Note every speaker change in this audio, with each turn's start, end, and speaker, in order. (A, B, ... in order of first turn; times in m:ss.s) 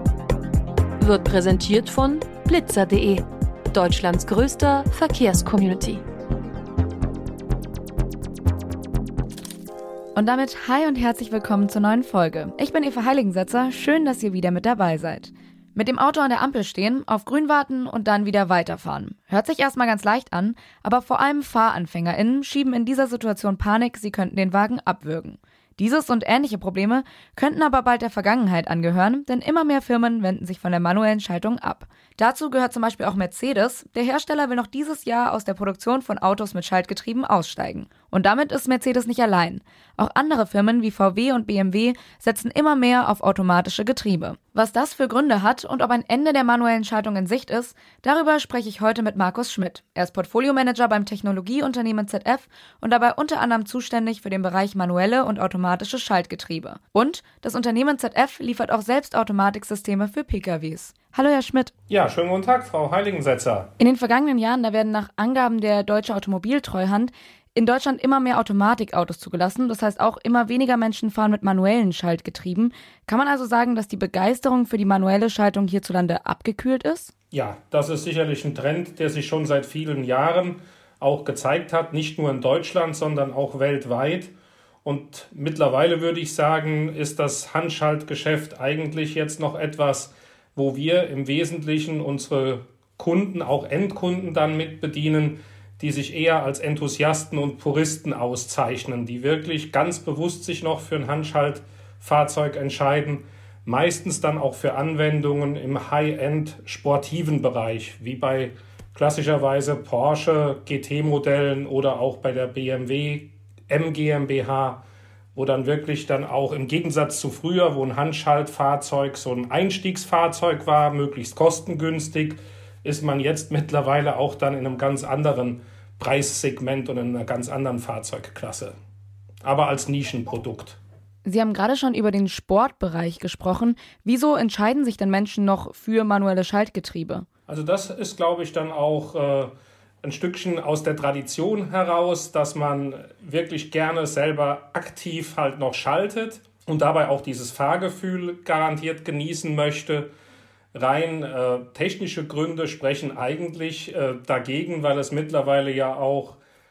0:01.0-0:06.0 A
0:10.1-1:01.7 B
1:01.9-1:03.7 C
1:03.8-1:17.1 B
1:17.3-1:24.3 C
1:24.8-1:54.8 C
1:55.3-2:08.7 C
2:09.4-2:10.8 C
2:11.2-2:17.3 B
2:17.5-2:19.5 C
2:20.0-2:30.1 C
2:30.7-2:36.4 C